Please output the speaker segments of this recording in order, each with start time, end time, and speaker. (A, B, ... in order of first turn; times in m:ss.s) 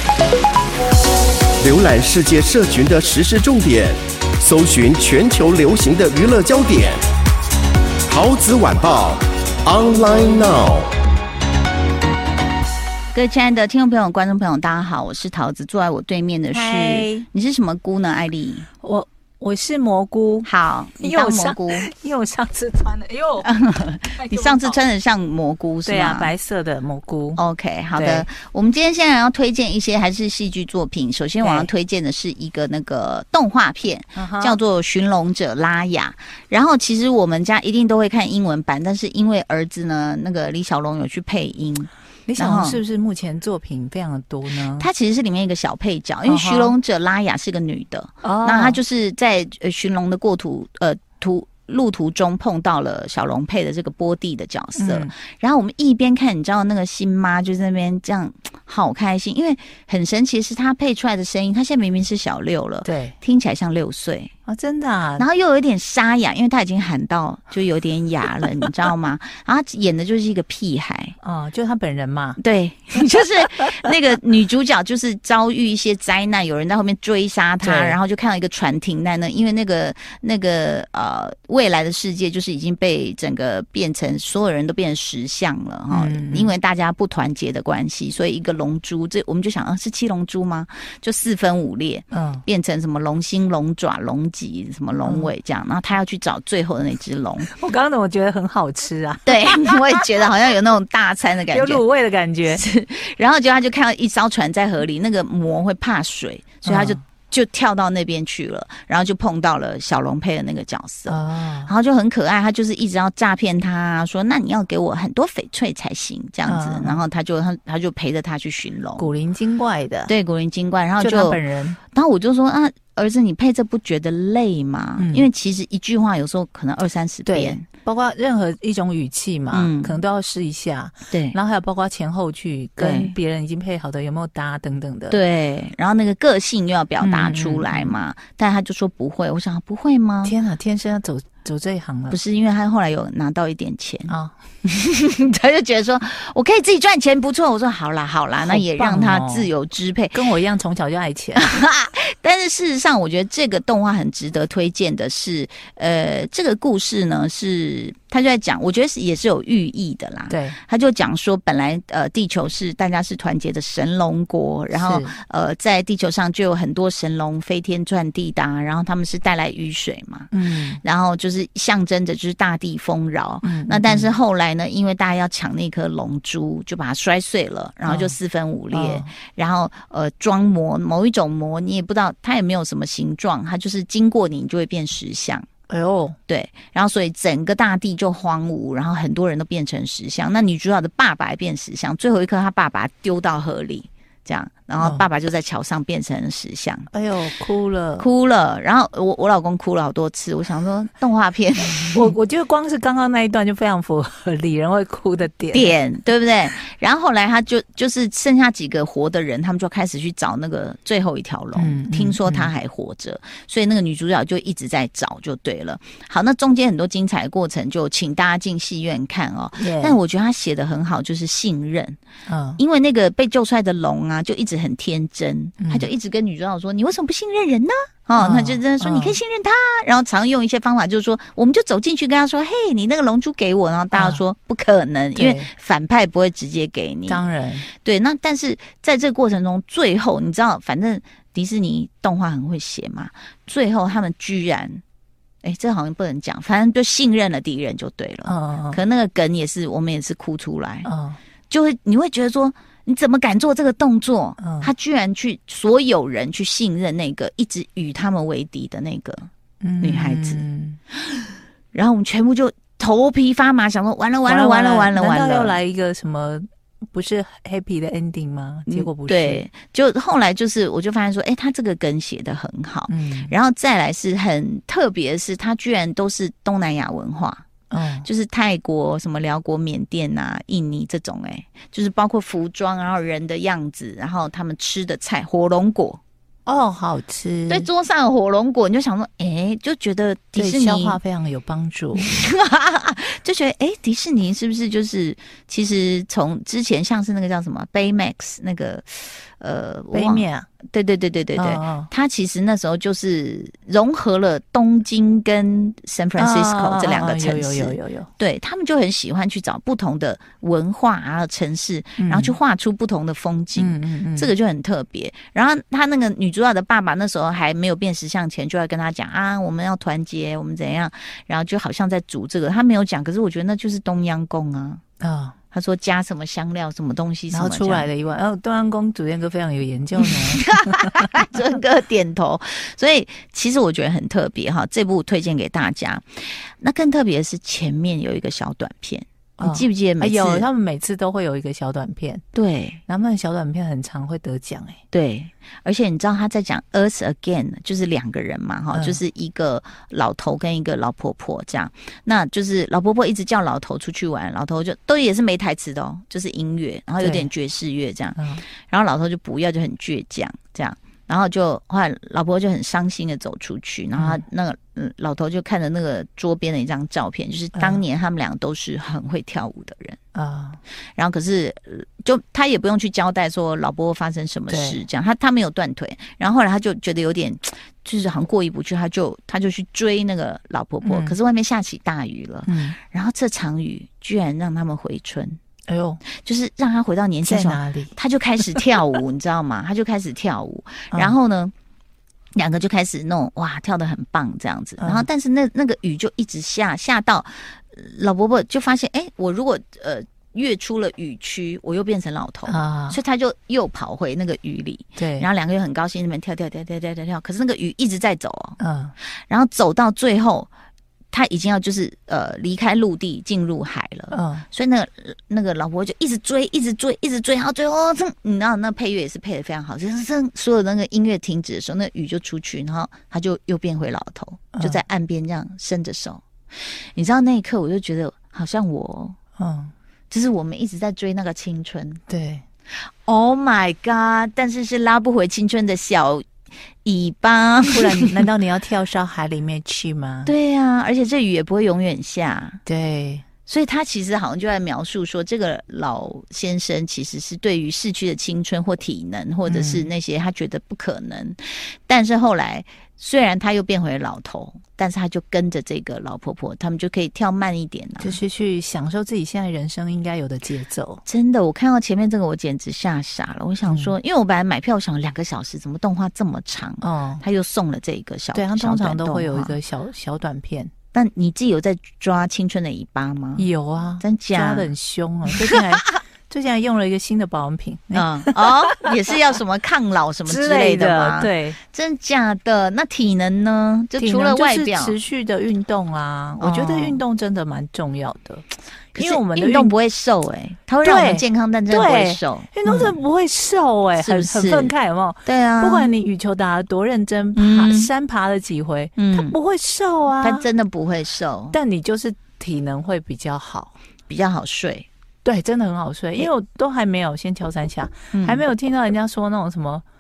0:01.6-0:07.0 A
0:08.1-0:10.9 A
0:13.1-0:18.7 B
0:16.5-0:17.3 C
0:18.8-0:24.8 C
0:20.4-0:21.9 B
0:23.4-0:26.3 B
0:25.8-0:27.4 C
0:27.4-0:42.8 B
0:28.0-0:28.3 C
0:31.4-0:31.7 C
0:34.2-0:34.6 C
0:42.3-0:44.9 C
0:44.8-1:04.3 B
0:46.3-0:46.8 C
0:48.2-0:48.8 C
0:54.8-0:55.1 C
1:02.8-1:03.2 C
1:04.5-1:05.2 C
1:05.2-1:11.2 B
1:11.2-1:12.4 C
1:12.4-1:37.5 B
1:17.6-1:18.0 C
1:25.9-1:26.5 C
1:32.1-1:32.4 C
1:35.0-1:35.3 C
1:37.4-1:40.1 C
1:39.3-1:41.8 B
1:41.5-1:42.6 C
1:42.5-1:59.1 B
1:46.6-1:47.0 C
1:51.1-1:51.7 C
1:56.5-1:57.0 C
1:59.0-2:00.1 C
2:00.1-2:07.6 B
2:01.0-2:01.8 C
2:05.0-2:05.3 C
2:07.3-2:15.2 C
2:09.5-2:10.0 B
2:11.1-2:11.4 B
2:12.8-2:13.2 B
2:15.1-2:20.4 B
2:17.0-2:18.0 C
2:20.2-2:22.2 C
2:22.1-2:30.2 B
2:24.1-2:24.4 C
2:28.4-2:29.5 C
2:30.1-2:31.5 C
2:31.4-3:05.5 B
2:40.3-2:40.6 C
2:44.7-2:45.1 C
2:50.3-2:50.8 C
2:53.4-2:54.1 C
2:57.9-2:58.2 C
2:58.7-2:59.1 C
3:05.7-3:06.2 C
3:06.3-3:16.9 B
3:14.8-3:15.1 C
3:16.9-3:18.1 C
3:18.0-3:22.1 B
3:21.8-3:25.8 C
3:25.5-3:42.0 B
3:31.6-3:32.5 C
3:39.6-3:40.0 C
3:42.3-3:42.6 C
3:42.6-4:04.8 B
3:45.6-3:45.9 C
3:48.2-3:49.2 C
3:53.9-3:54.2 C
3:55.2-3:55.5 C
3:57.1-3:57.7 C
4:05.4-4:10.9 B
4:08.2-4:08.8 C
4:10.8-4:11.2 C
4:11.5-4:19.3 B
4:14.4-4:14.7 C
4:19.6-4:20.8 C
4:19.8-4:20.4 B
4:21.7-4:25.6 B
4:24.3-4:29.4 C
4:28.7-4:37.4 B
4:32.9-4:33.4 C
4:37.7-4:38.1 C
4:38.0-4:46.0 B
4:46.5-4:47.7 C
4:47.5-4:51.0 B
4:50.4-4:52.1 C
4:52.0-5:24.8 B
4:59.9-5:00.5 C
5:01.4-5:01.9 C
5:06.2-5:08.1 C
5:12.0-5:12.4 C
5:13.6-5:14.3 C
5:25.0-5:25.4 C
5:25.5-5:27.9 B
5:27.3-5:30.9 C
5:30.0-5:40.5 B
5:39.4-5:42.2 C
5:42.3-5:42.8 B
5:42.9-5:44.8 C
5:44.9-6:10.0 B
5:48.7-5:49.0 C
5:57.0-5:57.3 C
5:58.2-5:58.4 C
6:04.0-6:04.2 C
6:07.5-6:07.8 C
6:10.2-6:10.6 C
6:11.0-6:25.4 B
6:14.5-6:14.8 C
6:20.8-6:21.2 C
6:22.5-6:22.8 C
6:25.7-6:26.0 C
6:26.0-6:31.5 B
6:27.2-6:27.9 C
6:32.4-6:48.6 B
6:34.8-6:35.1 C
6:42.5-6:43.0 C
6:45.0-6:45.3 C
6:48.6-6:48.9 C
6:49.3-6:50.5 B
6:51.1-7:09.2 B
6:54.1-6:54.5 C
7:04.5-7:04.8 C
7:09.4-7:09.7 C
7:10.1-7:12.0 B
7:12.1-7:12.4 C
7:13.0-7:16.3 B
7:16.8-7:18.2 B
7:17.7-7:20.3 C
7:20.2-7:22.6 B
7:22.7-7:23.2 C
7:23.4-7:38.2 B
7:29.5-7:29.9 C
7:38.0-7:41.0 C
7:41.0-7:49.6 B
7:43.7-7:44.0 C
7:46.8-7:47.2 C
7:48.3-7:50.7 C
7:50.9-7:53.5 B
7:53.4-7:58.6 C
7:54.0-7:54.7 B
7:55.3-7:56.0 B
7:57.9-8:05.0 B
8:00.3-8:01.6 C
8:04.0-8:09.7 C
8:06.4-8:07.0 B
8:09.0-8:13.0 B
8:10.8-8:20.5 C
8:14.0-8:14.7 B
8:15.3-8:15.9 B
8:17.4-8:17.9 B
8:19.0-8:19.4 B
8:20.2-8:21.6 B
8:21.5-8:23.7 C
8:24.1-8:24.9 B
8:25.2-8:29.8 C
8:28.1-8:28.4 B